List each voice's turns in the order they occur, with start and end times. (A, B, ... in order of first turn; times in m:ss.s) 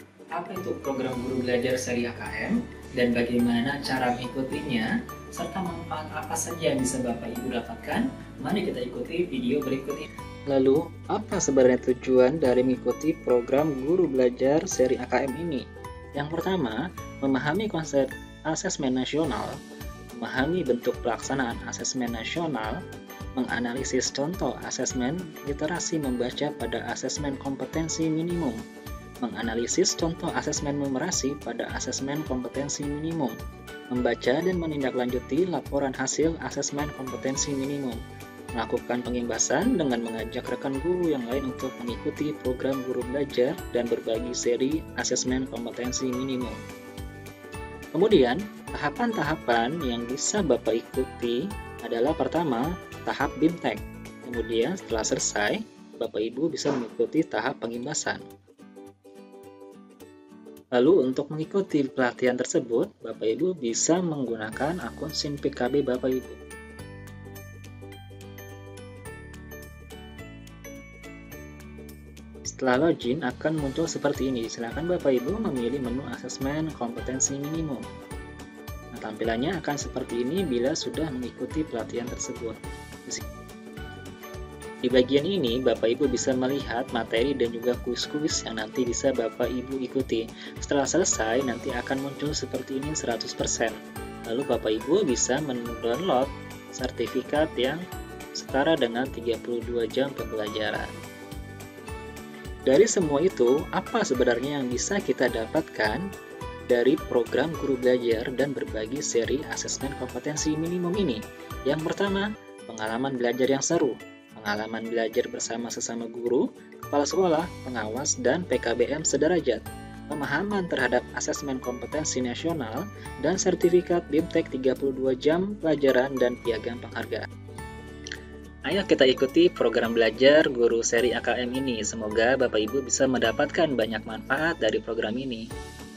0:00.4-0:15.6 A
0:16.2-0:19.5 A
0:20.2-0:22.8 A
0:23.4-0:28.6 A
0:29.2-0:33.4 A
0:33.9-0:38.0 A
0:38.6-0:46.6 A
0:48.0-0:58.2 A
1:00.8-1:06.4 A
1:12.6-1:17.8 A
1:19.0-1:23.2 A
1:24.8-1:37.8 A
1:38.4-1:40.9 A
1:42.7-1:46.0 A
1:46.7-2:07.3 A
2:08.7-2:15.5 A